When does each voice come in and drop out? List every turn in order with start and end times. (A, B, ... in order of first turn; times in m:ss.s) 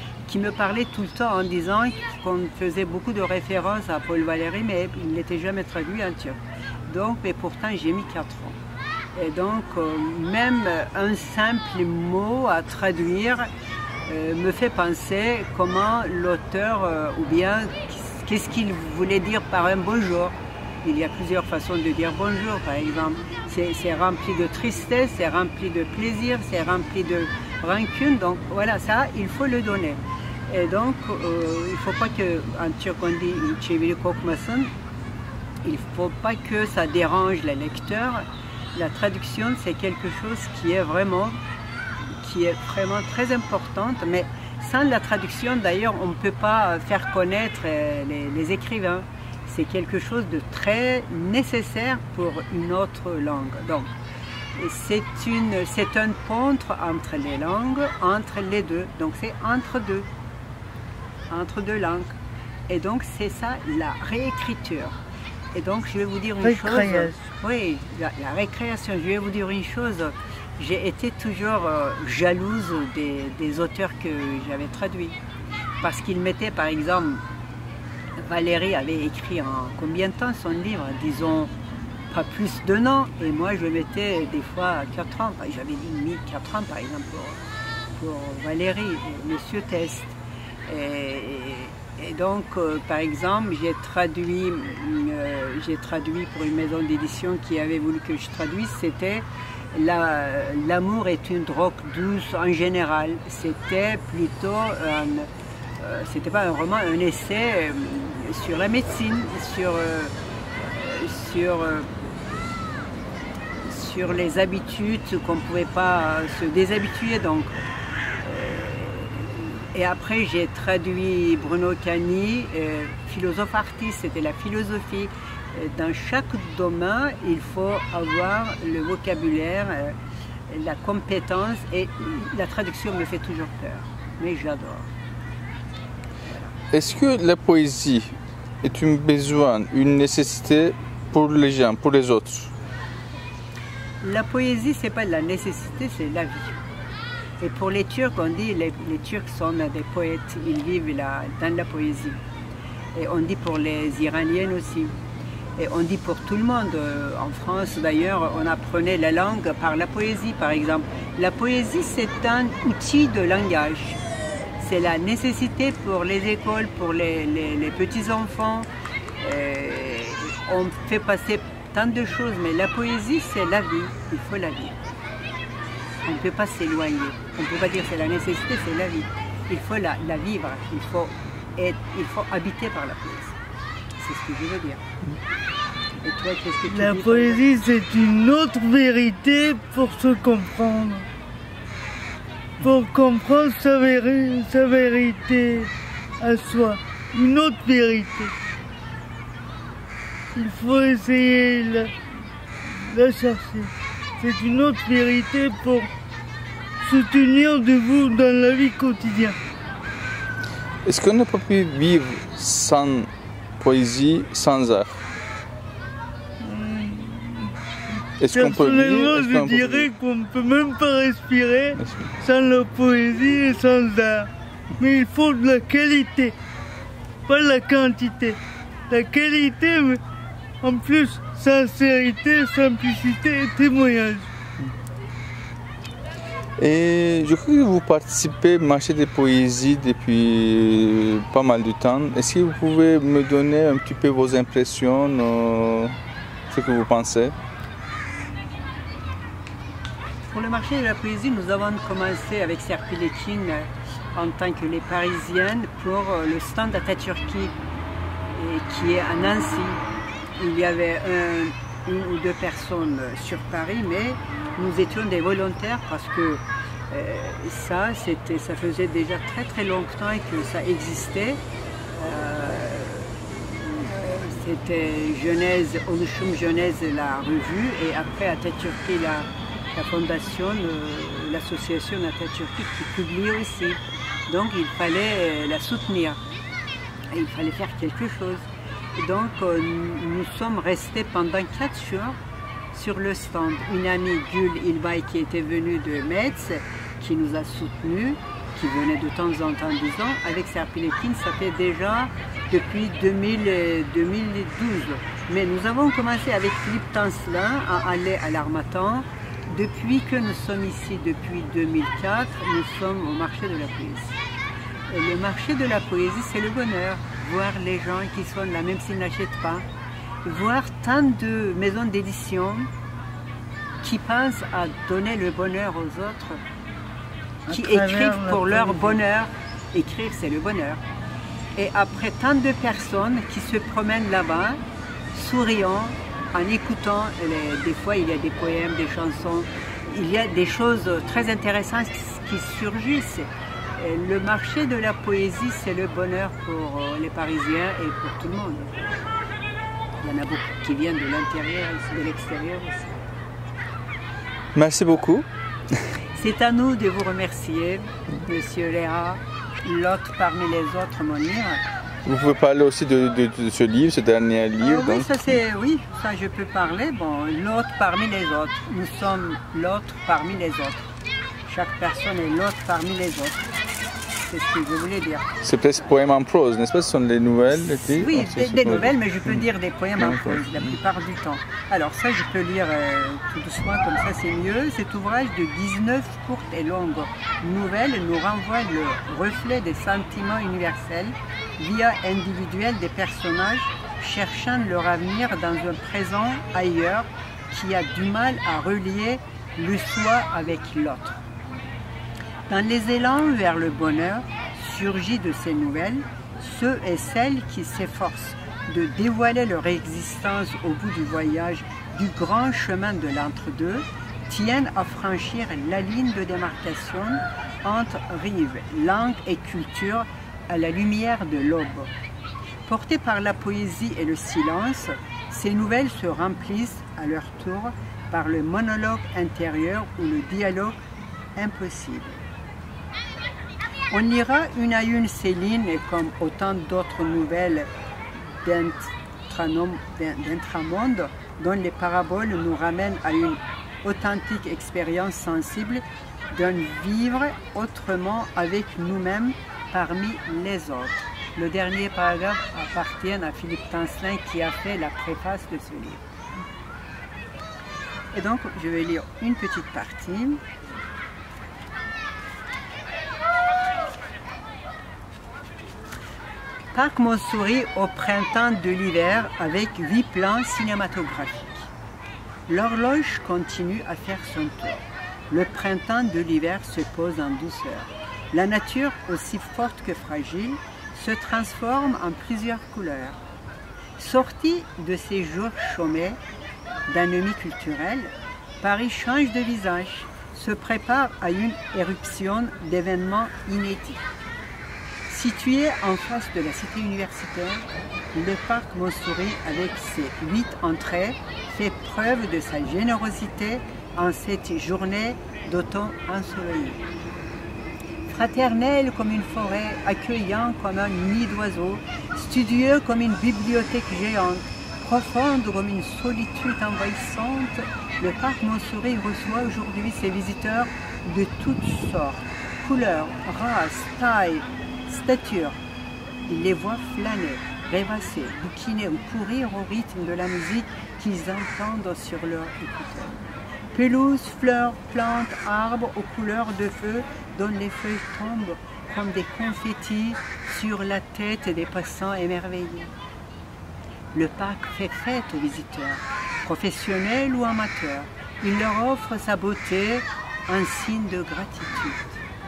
0:00.3-0:08.6 A
0:09.2-0:13.5 A
0:14.1-0:34.7 A
0:35.6-0:41.4 A
0:42.2-0:53.9 A
0:54.6-1:00.1 A
1:01.3-1:02.2 A
1:02.7-1:05.0 A
1:05.5-1:15.2 A
1:06.4-1:07.2 B
1:15.8-1:17.2 A
1:18.2-1:21.5 A
1:22.1-1:27.4 A
1:28.0-1:50.1 A
1:50.6-1:51.9 A
1:53.6-1:57.5 A
1:58.2-2:10.0 A
2:10.5-2:14.9 A
2:16.7-2:22.5 C
2:24.0-2:26.6 A
2:27.4-2:32.2 A
2:33.0-2:34.9 A
2:35.6-2:44.0 A
2:44.6-2:48.7 A
2:49.2-2:54.8 A
2:56.0-3:03.4 A
3:04.0-3:04.8 A
3:06.0-3:07.4 A
3:06.7-3:11.1 B
3:12.6-3:18.3 B
3:20.4-3:21.9 B
3:22.6-3:25.9 B
3:26.8-3:29.4 B
3:30.8-3:35.0 C
3:36.4-3:46.4 B
3:38.2-3:39.9 C
3:41.8-3:42.1 C
3:47.3-3:48.4 B
3:48.9-3:50.0 B
3:50.6-3:54.3 B
3:56.6-4:06.0 C
4:06.5-4:07.4 C
4:10.3-4:17.5 A
4:18.3-4:19.8 A
4:20.4-4:31.4 A
4:32.0-4:46.2 A
4:47.1-4:52.2 A
4:52.7-5:14.2 A
5:14.9-5:19.7 A
5:20.2-5:22.7 A
5:23.8-5:26.4 A
5:27.5-5:29.0 B
5:27.5-5:30.8 A
5:31.6-5:34.6 A
5:35.1-5:48.9 A
5:50.0-5:53.1 A
5:54.6-5:55.3 C
5:56.2-6:01.6 A
6:02.0-6:05.1 C
6:04.6-6:10.9 A
6:11.4-6:13.5 A
6:14.2-6:15.3 A
6:15.4-6:18.9 C
6:17.8-6:41.2 A
6:20.0-6:20.4 C
6:42.5-7:01.9 A
7:02.7-7:10.8 A
7:11.4-7:12.2 A
7:13.9-7:17.7 A
7:18.3-7:36.0 A
7:38.1-7:40.4 A
7:46.7-7:51.7 A
7:52.5-8:03.2 A
8:04.0-8:06.2 A
8:06.9-8:14.1 A
8:15.1-8:26.8 A
8:28.1-8:45.6 A
8:46.3-8:53.2 A
8:53.7-9:02.9 A
9:04.1-9:12.2 A